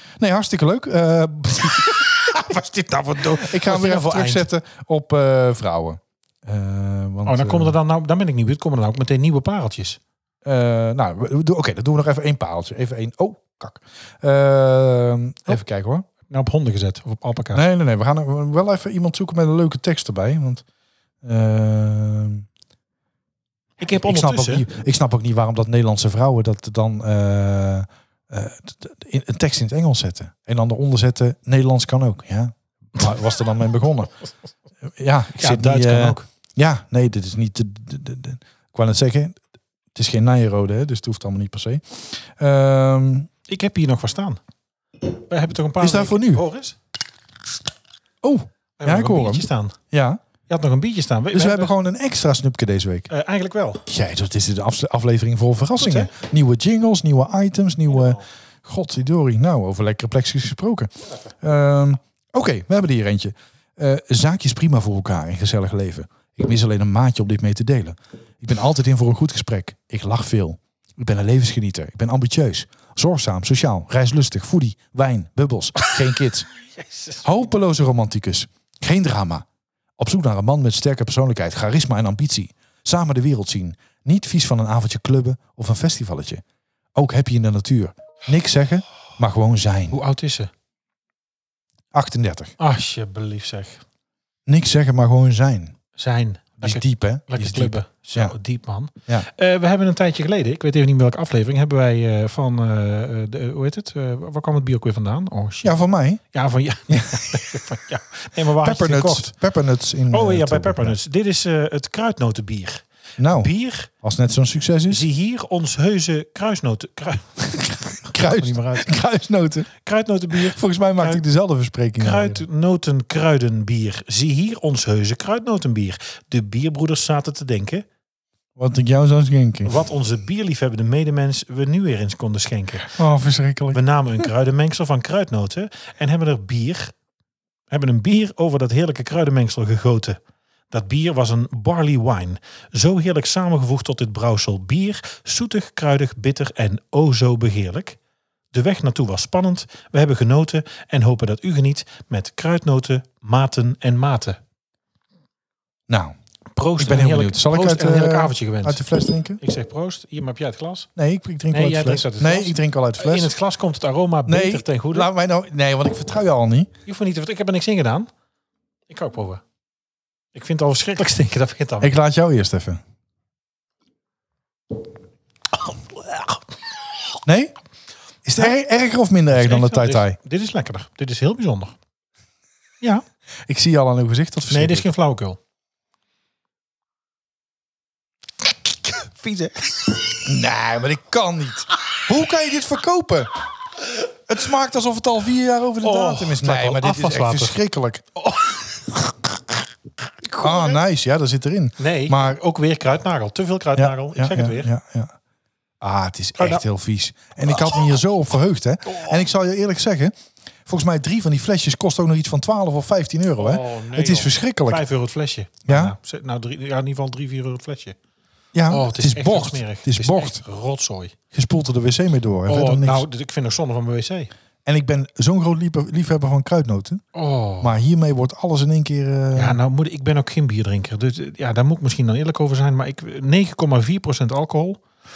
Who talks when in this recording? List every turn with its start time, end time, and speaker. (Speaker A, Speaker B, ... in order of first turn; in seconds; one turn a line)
Speaker A: 0.2-2.1
Speaker B: 1.9-4.5
Speaker A: 3.2-7.8
Speaker B: 7.2-10.0
Speaker A: 10.4-16.1
Speaker B: 16.3-17.6
Speaker A: 17.5-20.6
Speaker A: 21.2-22.4
Speaker B: 23.8-24.6
Speaker A: 23.9-34.1
Speaker A: 34.9-39.4
Speaker B: 35.4-36.2
Speaker A: 39.9-43.3
Speaker B: 43.5-44.4
Speaker B: 45.0-46.8
Speaker A: 45.8-46.4
Speaker A: 48.2-50.2
Speaker B: 48.8-49.8
Speaker B: 50.5-51.7
Speaker A: 51.3-53.1
Speaker B: 53.1-53.8
Speaker A: 53.9-76.5
Speaker B: 55.8-56.1
Speaker B: 76.7-77.3
Speaker A: 77.2-79.5
Speaker A: 80.0-86.4
Speaker A: 86.9-90.0
Speaker B: 89.9-90.5
Speaker A: 91.9-92.5
Speaker B: 92.6-93.8
Speaker A: 94.5-95.8
Speaker B: 96.0-105.8
Speaker A: 96.6-98.3
Speaker A: 105.6-106.2
Speaker B: 106.3-109.3
Speaker A: 106.9-107.6
Speaker A: 108.6-111.0
Speaker B: 110.1-113.9
Speaker A: 113.2-115.0
Speaker B: 114.9-118.9
Speaker A: 118.0-119.7
Speaker B: 119.8-121.2
Speaker A: 120.3-122.4
Speaker B: 122.0-127.8
Speaker A: 128.6-129.8
Speaker B: 129.6-132.9
Speaker A: 132.9-134.3
Speaker B: 133.7-136.9
Speaker B: 137.7-140.2
Speaker B: 140.7-148.0
Speaker B: 148.5-154.4
Speaker A: 155.9-156.2
Speaker B: 156.5-158.8
Speaker A: 156.8-159.4
Speaker B: 159.4-160.9
Speaker A: 161.0-163.3
Speaker B: 161.5-165.1
Speaker A: 164.2-166.7
Speaker B: 166.8-168.1
Speaker B: 168.9-169.4
Speaker B: 170.3-171.9
Speaker A: 171.8-172.8
Speaker B: 175.9-176.4
Speaker A: 177.2-177.5
Speaker A: 178.2-180.2
Speaker B: 179.3-181.7
Speaker A: 183.5-184.9
Speaker B: 184.5-185.4
Speaker B: 188.9-189.9
Speaker A: 190.2-193.3
Speaker A: 194.3-198.0
Speaker B: 195.8-197.6
Speaker B: 198.2-199.2
Speaker B: 200.2-200.8
Speaker A: 200.4-202.4
Speaker B: 201.8-204.7
Speaker A: 203.8-205.1
Speaker A: 205.8-210.1
Speaker B: 206.4-206.6
Speaker B: 207.5-207.9
Speaker B: 208.8-209.2
Speaker A: 210.7-214.8
Speaker B: 213.4-218.0
Speaker A: 215.7-215.9
Speaker A: 218.5-220.4
Speaker B: 218.7-221.1
Speaker A: 221.3-223.0
Speaker B: 222.5-224.3
Speaker A: 224.6-227.0
Speaker B: 227.1-227.8
Speaker A: 227.6-229.6
Speaker B: 229.3-234.8